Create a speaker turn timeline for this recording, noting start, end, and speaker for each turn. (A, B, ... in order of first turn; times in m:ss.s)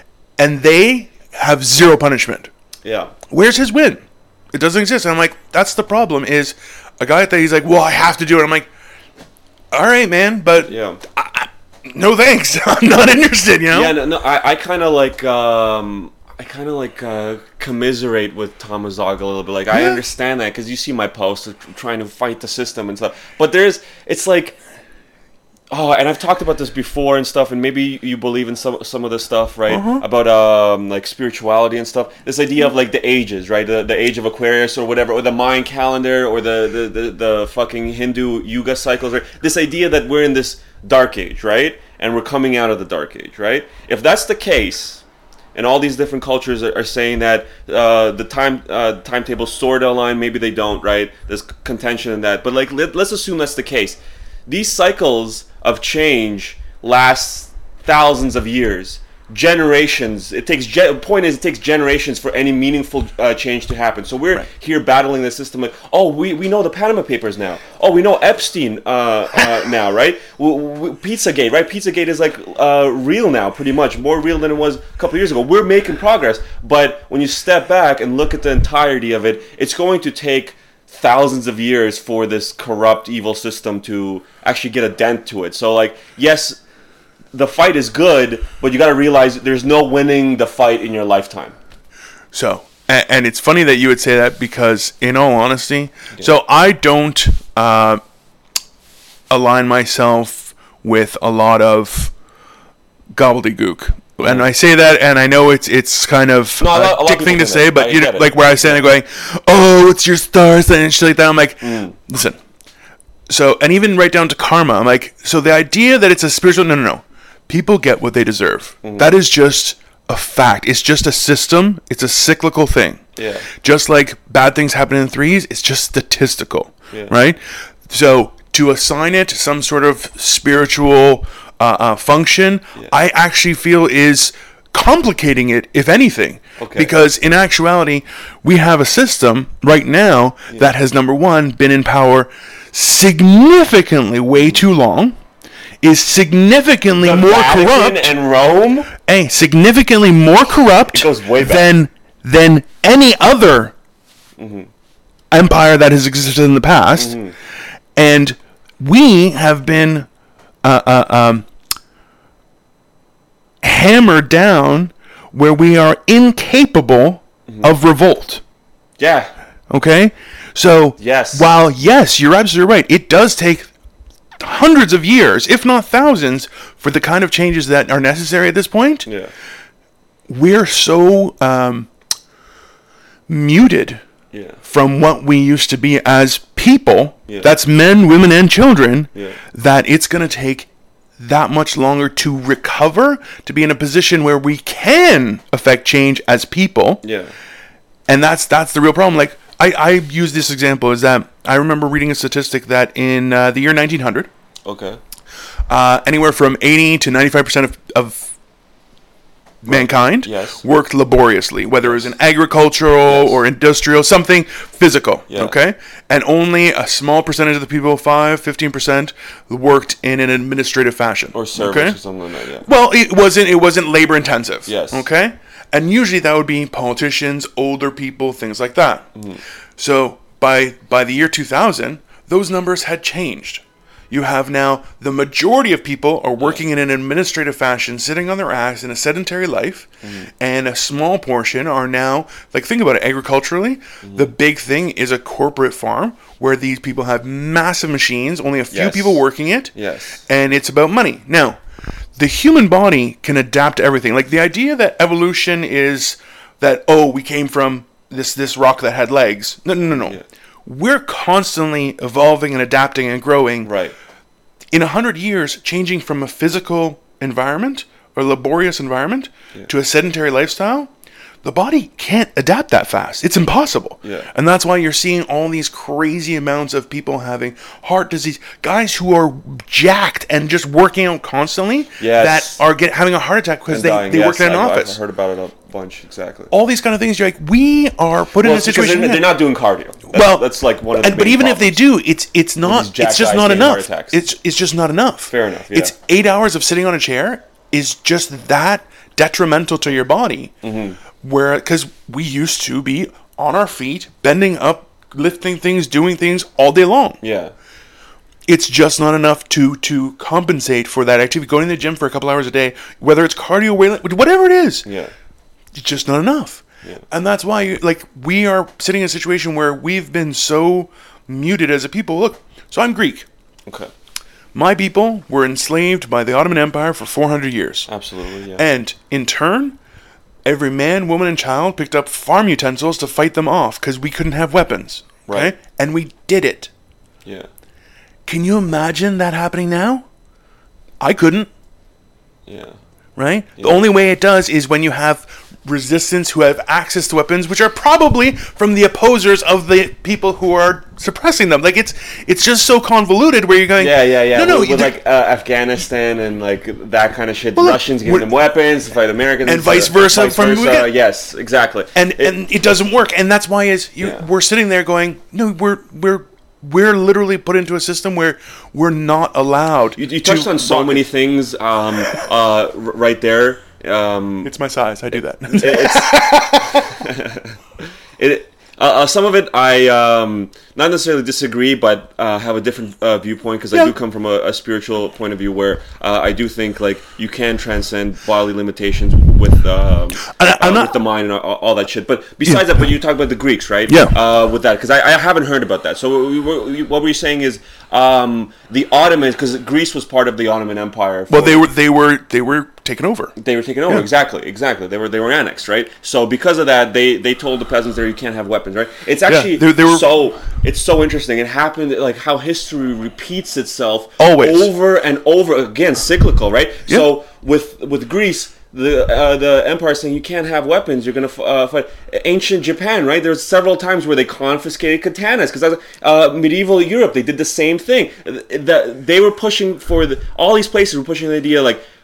0:00.4-0:02.5 A
0:02.8-0:03.1 B
0:03.3-0:04.0 A
0:04.5-0:08.7 A
0:09.7-0:14.0 A
0:10.6-0:11.0 B
0:13.7-0:24.6 B
0:19.7-0:20.0 A
0:25.7-0:45.0 B
0:29.7-0:30.0 A
0:45.5-1:26.6 B
1:27.3-1:31.6 B
1:32.3-1:38.0 A
1:39.3-1:42.1 A
1:43.1-1:52.4 A
1:44.2-1:44.5 B
1:46.6-1:48.8 B
1:51.6-1:51.9 B
1:53.3-2:03.0 A
1:58.8-1:59.1 B
2:03.2-2:03.5 B
2:03.6-2:25.2 A
2:16.6-2:16.9 B
2:25.8-2:28.1 A
2:26.9-2:28.9 B
2:28.9-2:33.7 A
2:30.9-2:31.7 B
2:34.4-2:34.7 B
2:35.3-2:37.2 A
2:37.0-2:37.3 B
2:38.0-2:40.1 A
2:40.6-2:41.5 A
2:43.6-2:48.4 A
2:47.5-2:47.7 B
2:49.0-2:49.3 B
2:49.7-2:53.7 A
2:51.0-2:51.5 B
2:54.4-2:59.0 A
2:59.0-2:59.3 B
3:00.3-3:01.9 A
3:03.3-3:04.0 A
3:04.3-3:04.6 B
3:04.6-3:17.0 A
3:17.0-3:17.3 B
3:18.1-3:24.3 A
3:24.6-3:25.0 B
3:25.7-3:28.3 A
3:29.6-3:30.6 B
3:29.6-3:42.0 A
3:31.8-3:32.1 B
3:33.1-3:33.4 B
3:35.3-3:35.5 B
3:41.3-3:42.6 B
3:42.6-3:49.1 A
3:44.7-3:45.0 B
3:49.2-3:49.4 B
3:49.8-4:09.7 A
4:00.0-4:00.3 B
4:04.0-4:04.3 B
4:08.7-4:09.2 B
4:09.7-4:10.2 B
4:10.3-4:11.6 A
4:12.2-4:23.7 A
4:20.0-4:20.2 B
4:23.6-4:23.9 B
4:24.7-4:30.9 A
4:31.4-4:45.0 A
4:34.0-4:34.3 B
4:42.0-4:42.6 B
4:43.7-4:46.5 B
4:46.5-4:49.3 A
4:48.4-4:51.8 B
4:50.1-5:00.5 A
4:52.6-4:54.2 B
4:55.3-4:55.9 B
5:00.6-5:01.0 B
5:01.2-5:07.2 A
5:07.2-5:07.5 B
5:08.5-5:14.9 A
5:14.8-5:15.1 B
5:15.7-5:23.3 A
5:24.5-5:27.9 A
5:27.9-5:28.6 B
5:28.6-5:29.8 A
5:30.4-5:36.7 A
5:35.3-5:35.5 B
5:38.2-5:40.0 A
5:41.0-5:41.5 A
5:42.5-5:42.8 B
5:43.2-5:55.0 A
5:53.8-6:02.4 B
5:57.6-5:58.3 A
5:59.4-6:00.9 A
6:01.9-6:11.1 A
6:10.0-6:14.5 B
6:14.4-6:16.9 A
6:15.5-6:17.5 B
6:18.2-6:41.6 B
6:30.3-6:31.0 A
6:33.9-6:34.1 A
6:41.3-6:43.3 A
6:43.4-7:11.8 B
6:49.3-6:50.1 A
6:54.2-6:54.7 A